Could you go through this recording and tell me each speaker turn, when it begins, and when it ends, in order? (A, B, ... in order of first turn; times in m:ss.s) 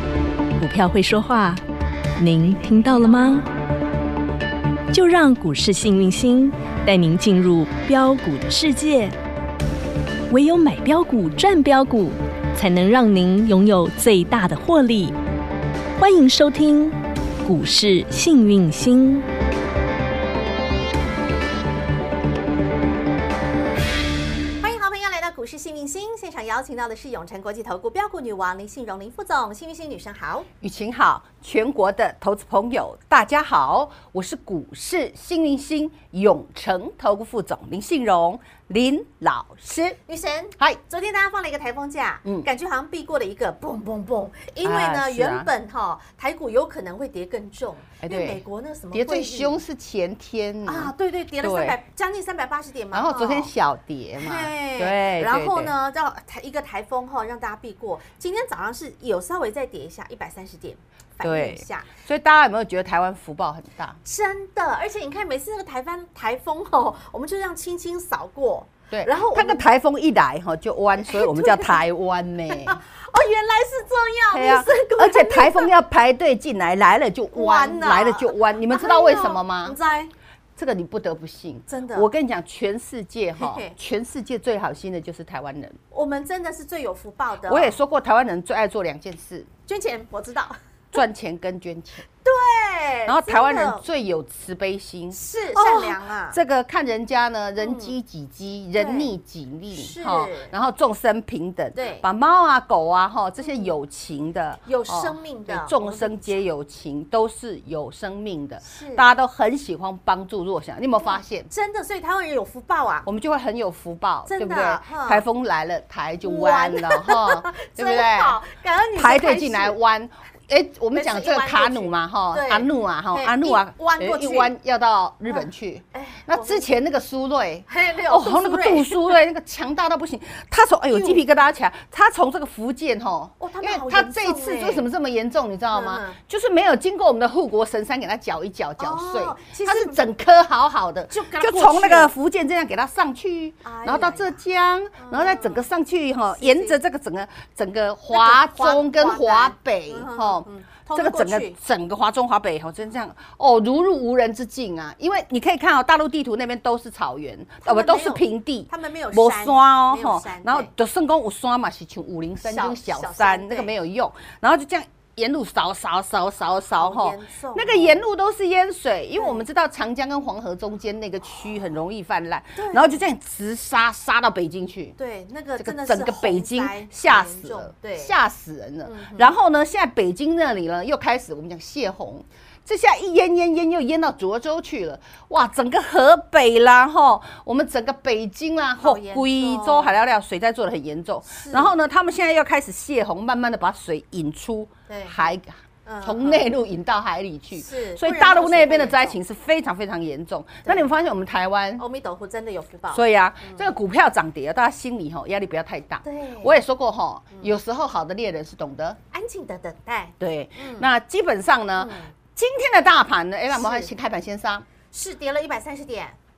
0:00.6-0:01.6 A
0:02.2-0:03.5 A
0:04.9-0:09.1 A
0:10.3-0:15.2 A
0:16.0-0:19.2 A
0:24.6-0:30.5 B
0:30.6-0:40.0 C
0:40.1-0:49.6 B
0:44.6-0:45.5 C
0:48.0-0:48.4 C
0:48.9-0:51.8 C
0:50.6-0:53.5 B
0:52.9-0:55.7 C
0:54.2-1:01.9 B
1:01.2-1:04.0 C
1:04.0-1:09.6 B
1:08.9-1:12.8 C
1:11.0-1:11.8 B
1:12.5-1:15.7 B
1:14.3-1:19.8 C
1:17.3-1:20.1 B
1:20.6-1:25.8 C
1:21.7-1:22.1 B
1:23.4-1:23.8 B
1:25.9-1:27.8 B
1:27.5-1:29.5 C
1:29.7-1:30.6 B
1:30.9-1:32.0 C
1:32.2-1:33.8 B
1:33.1-1:51.5 C
1:35.1-1:36.4 B
1:37.6-1:38.0 B
1:38.8-1:39.1 B
1:39.7-1:40.5 B
1:41.8-1:42.0 B
1:43.4-1:43.7 B
1:44.7-1:46.4 B
1:48.6-1:49.1 B
1:51.0-1:53.1 B
1:53.0-1:58.4 C
1:54.3-1:55.2 B
1:56.2-1:59.8 B
1:59.0-2:55.0 C
2:00.9-2:04.5 B
2:05.3-2:06.7 B
2:07.7-2:09.0 B
2:10.9-2:11.2 B
2:13.4-2:14.9 B
2:15.7-2:16.2 B
2:18.8-2:20.0 B
2:21.1-2:22.1 B
2:23.6-2:24.4 B
2:25.0-2:25.7 B
2:26.3-2:26.8 B
2:28.1-2:31.6 B
2:37.6-2:40.7 B
2:42.4-2:43.7 B
2:46.8-2:48.0 B
2:49.2-2:49.4 B
2:52.6-2:53.0 B
2:55.0-2:58.2 B
2:55.6-3:21.8 C
2:58.8-2:59.3 B
3:08.8-3:09.9 B
3:11.3-3:11.7 B
3:14.9-3:15.3 B
3:15.8-3:16.4 B
3:17.6-3:19.2 B
3:21.8-3:23.6 B
3:22.9-3:29.0 C
3:26.0-3:26.6 B
3:29.1-3:30.9 B
3:30.2-3:34.6 C
3:31.8-3:32.1 B
3:33.5-3:33.9 B
3:34.9-3:36.2 B